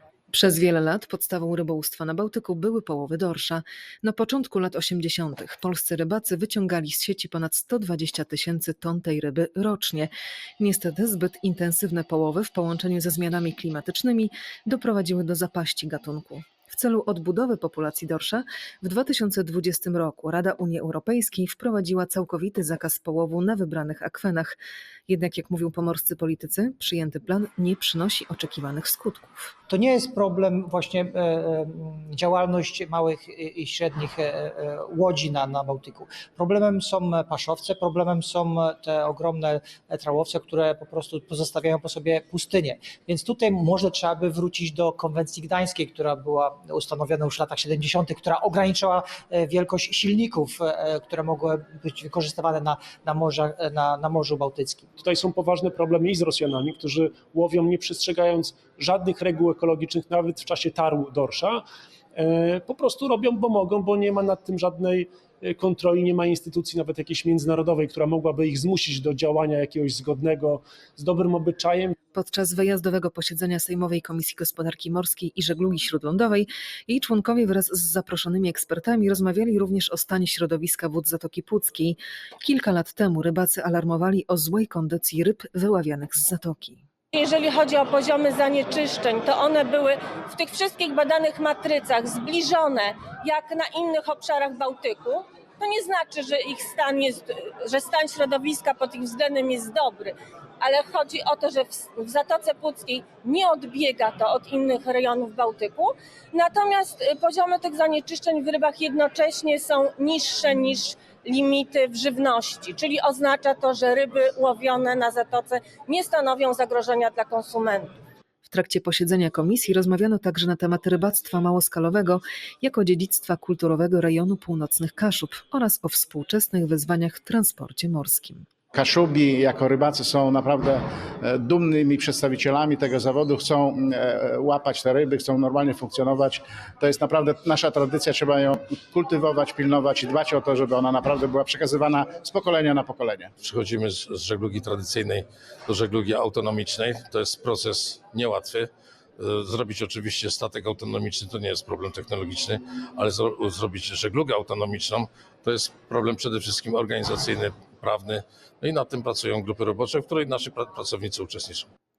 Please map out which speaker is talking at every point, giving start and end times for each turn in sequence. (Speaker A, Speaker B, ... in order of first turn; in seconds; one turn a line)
Speaker A: 0.3-24.6
Speaker A: 25.1-29.6
Speaker B: 29.7-54.9
Speaker C: 55.0-61.6
Speaker C: 62.1-71.9
Speaker A: 72.1-86.8
Speaker D: 87.1-117.9
Speaker A: 118.5-128.4
Speaker E: 128.7-143.3
Speaker F: 143.4-161.7